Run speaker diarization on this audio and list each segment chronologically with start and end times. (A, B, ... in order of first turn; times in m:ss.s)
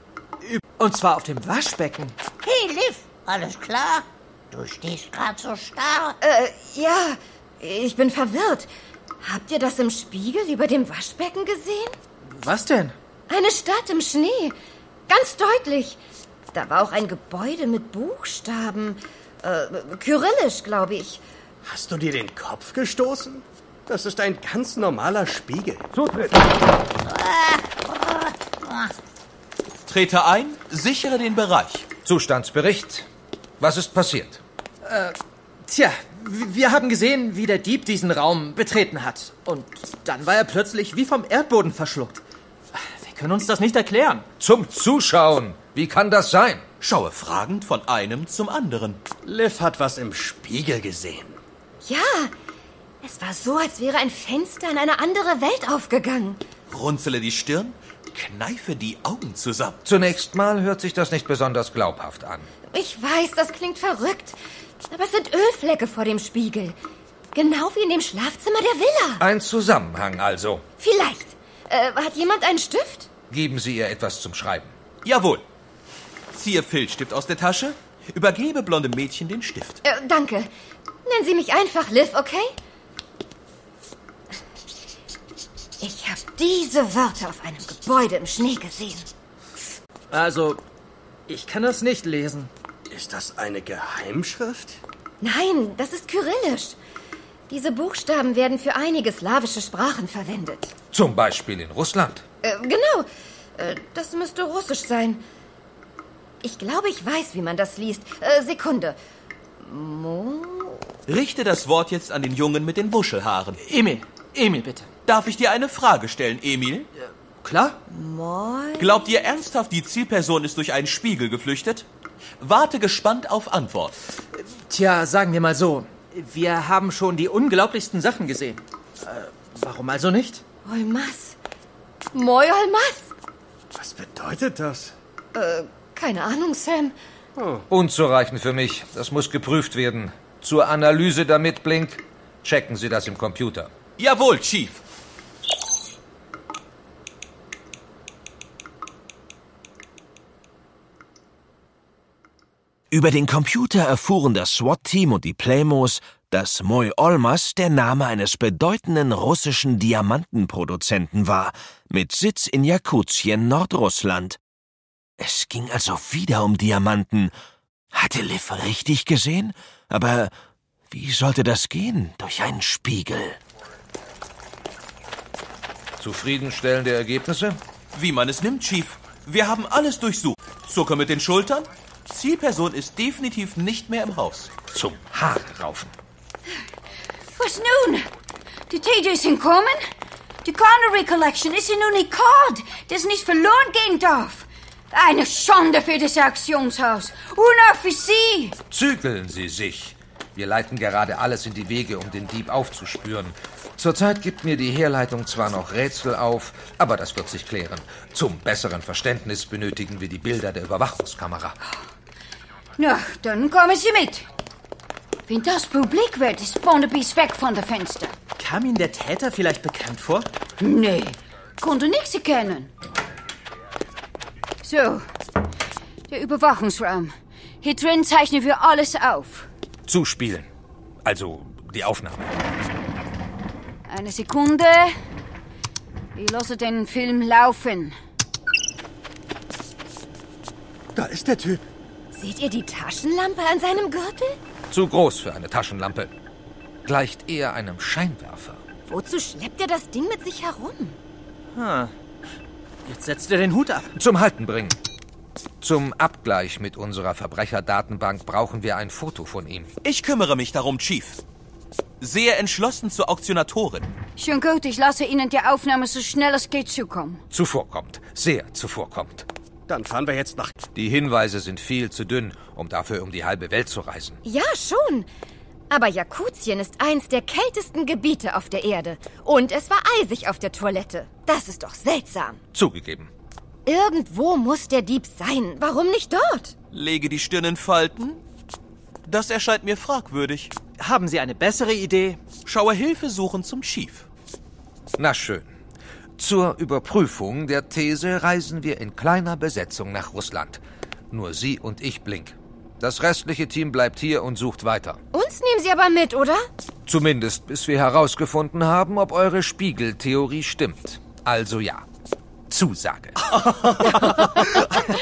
0:00.4-0:02.2 A
0:02.4-0:06.2 B
0:06.2-0:08.7 C
0:09.2-0:12.0 C
0:12.3-0:13.0 A
0:13.3-0:14.6 C
0:15.1-0:16.0 C
0:16.5-0:21.2 C
0:21.6-0:25.9 D
0:25.9-0:26.4 E
0:27.0-0:28.9 B
0:29.9-0:31.9 F
0:32.0-0:33.1 E
0:33.6-0:34.4 E
0:34.8-0:42.2 A
0:42.8-0:44.3 A
0:44.4-0:46.6 E
0:46.8-0:49.0 F
0:49.2-0:51.4 D
0:51.8-0:52.3 C
0:53.0-0:56.4 C
0:56.7-0:59.8 F
0:59.8-1:02.5 E
1:02.7-1:04.4 C
1:04.9-1:06.8 C
1:07.3-1:09.2 C
1:09.2-1:10.6 E
1:10.8-1:13.1 C
1:13.3-1:14.7 E
1:15.0-1:15.4 F
1:16.3-1:19.8 F
1:19.8-1:20.5 C
1:21.0-1:22.6 C
1:25.8-1:29.1 C
1:30.1-1:30.6 A
1:31.3-1:32.5 A
1:32.9-1:34.8 D
1:35.2-1:36.8 C
1:37.5-1:40.7 C
1:40.9-1:42.2 E
1:42.4-1:45.2 C
1:46.4-1:49.0 C
1:49.6-1:50.9 C
1:51.1-1:53.6 F
1:53.6-1:54.9 A
1:55.1-1:56.9 F
1:57.4-1:57.8 A
1:57.9-1:58.9 C
1:58.8-2:01.9 F
2:02.4-2:04.0 F
2:04.4-2:10.4 A
2:10.6-2:11.4 C
2:12.1-2:13.1 C
2:13.8-2:15.0 D
2:15.3-2:17.0 C
2:17.4-2:17.7 D
2:17.7-2:23.7 E
2:24.0-2:24.8 F
2:32.9-2:44.4 G
2:45.2-2:47.3 G
2:47.9-2:50.3 G
2:50.9-2:53.4 G
2:56.0-2:57.6 E
2:57.9-3:04.5 F
3:04.7-3:05.9 E
3:07.4-3:08.1 H
3:08.7-3:09.9 H
3:10.4-3:18.6 H
3:18.7-3:31.6 E
3:32.8-3:34.3 H
3:35.3-3:38.2 H
3:38.4-3:40.3 A
3:40.6-3:42.7 H
3:44.6-3:45.1 H
3:46.1-3:49.5 H
3:49.9-3:50.5 E
3:51.0-3:52.3 E
3:53.9-3:55.0 H
3:56.2-3:58.0 H
4:01.0-4:01.6 D
4:02.1-4:04.4 C
4:04.7-4:06.1 E
4:06.8-4:08.6 E
4:08.9-4:11.0 C
4:11.5-4:11.9 A
4:12.9-4:13.9 A
4:14.0-4:14.8 E
4:15.6-4:19.7 E
4:19.8-4:21.2 F
4:22.0-4:23.9 F
4:24.2-4:27.2 H
4:27.3-4:29.2 E
4:29.7-4:30.6 D
4:30.8-4:34.2 E
4:34.2-4:35.1 C
4:35.7-4:42.4 C
4:42.5-4:43.1 E
4:43.7-4:46.5 C
4:46.7-4:48.2 F
4:49.0-4:50.5 F
4:50.8-4:52.2 A
4:52.5-4:54.1 F
4:55.0-4:55.5 E
4:56.2-5:00.6 E
5:01.1-5:05.0 E
5:05.1-5:06.5 C
5:06.9-5:11.8 E
5:12.5-5:13.2 E
5:13.5-5:14.0 D